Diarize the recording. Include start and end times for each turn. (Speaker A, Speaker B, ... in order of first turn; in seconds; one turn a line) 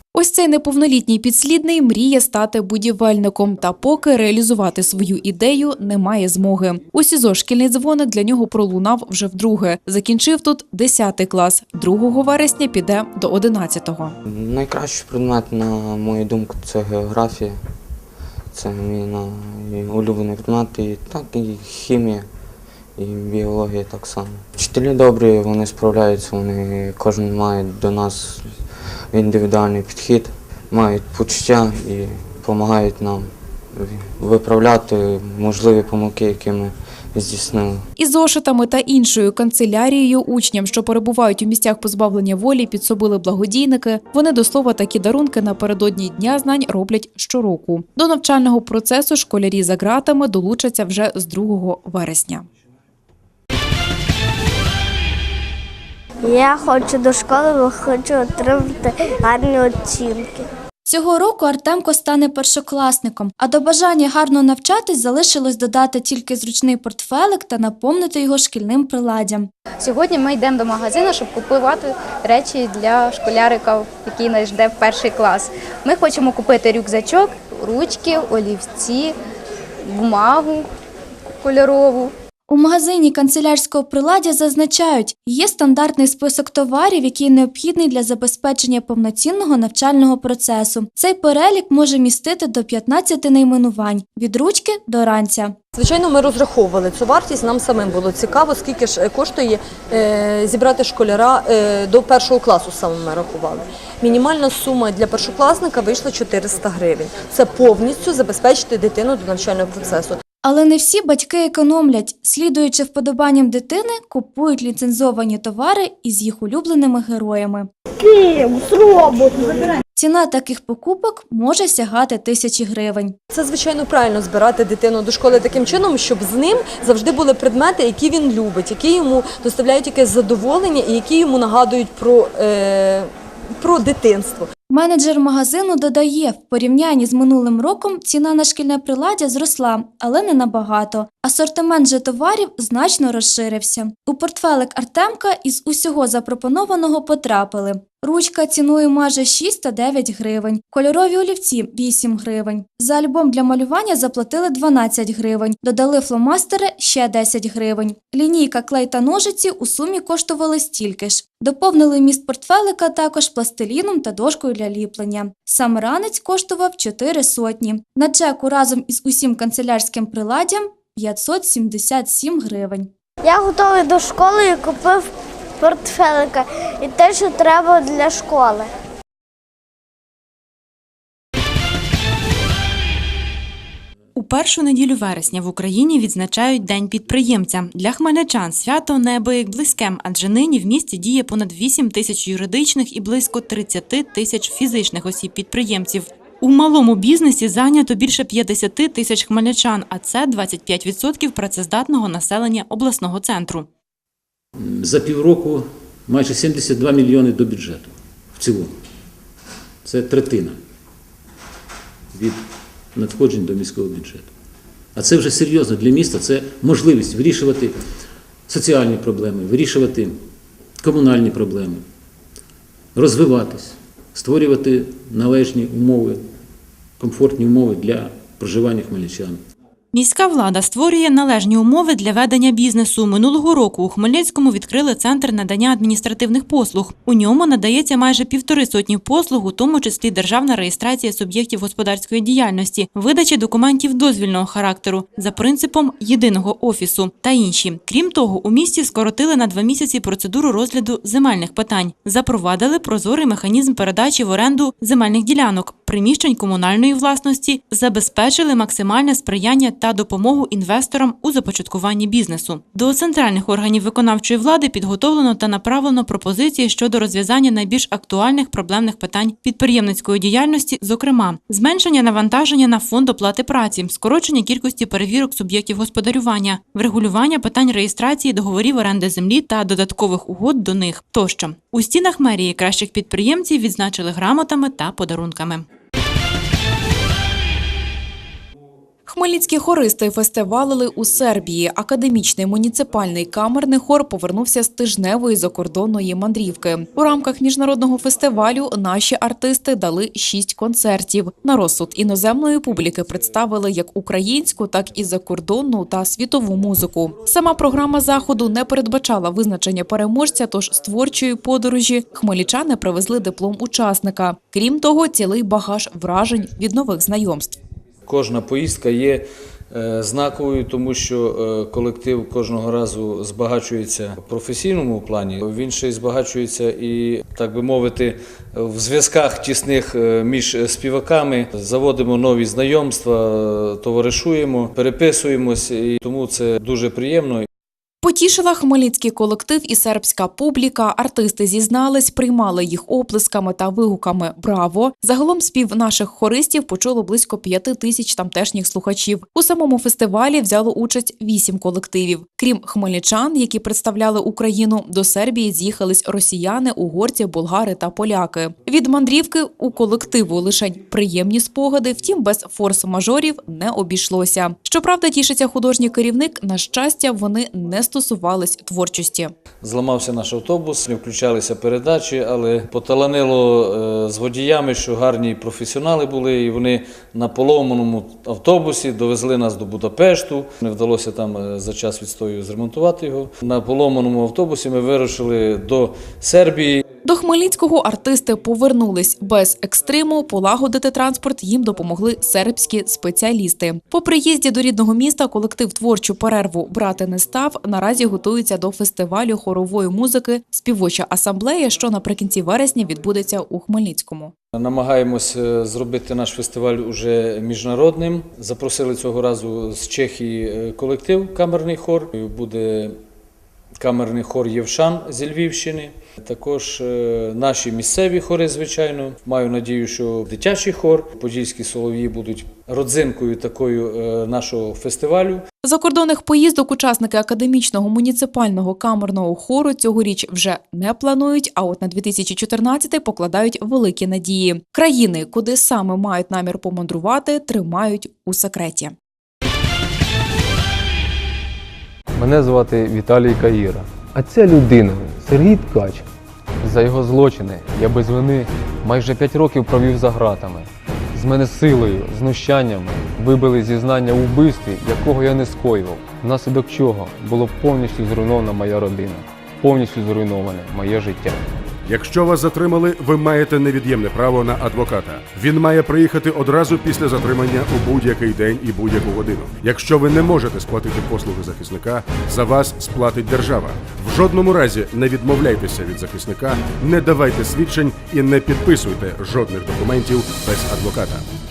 Speaker A: 0.1-14.2
Speaker B: 14.3-17.6
Speaker B: 18.5-22.2
Speaker B: 23.0-28.6
Speaker B: 29.1-37.8
Speaker A: 38.0-52.5
Speaker C: 56.2-60.5
Speaker D: 60.9-69.5
Speaker E: 69.8-79.1
Speaker F: 70.1-73.7
Speaker F: 74.5-78.9
Speaker E: 79.9-80.6
Speaker F: 80.2-80.6
Speaker E: 81.4-82.1
Speaker D: 82.5-95.5
Speaker F: 95.8-110.2
Speaker D: 110.4-117.7
Speaker D: 120.0-123.2
Speaker F: 123.3-133.1
Speaker F: 133.6-134.4
Speaker D: 134.7-172.9
Speaker C: 173.2-178.7
Speaker G: 184.2-203.7
Speaker H: 204.6-208.7
Speaker H: 209.8-210.6
Speaker H: 212.1-212.4
Speaker H: 212.9-214.3
Speaker H: 214.9-217.8
Speaker H: 218.5-220.2
Speaker H: 220.8-221.8
Speaker H: 222.9-226.2
Speaker H: 227.0-229.4
Speaker G: 229.9-285.7
Speaker A: 289.1-317.6
Speaker I: 318.1-337.5
Speaker A: 338.0-369.3
Speaker I: 369.6-386.8
Speaker A: 387.0-404.3
Speaker I: 404.5-412.9
Speaker I: 413.8-425.4
Speaker A: 425.6-438.9
Speaker J: 442.2-446.0
Speaker J: 446.6-461.4
Speaker K: 461.9-481.2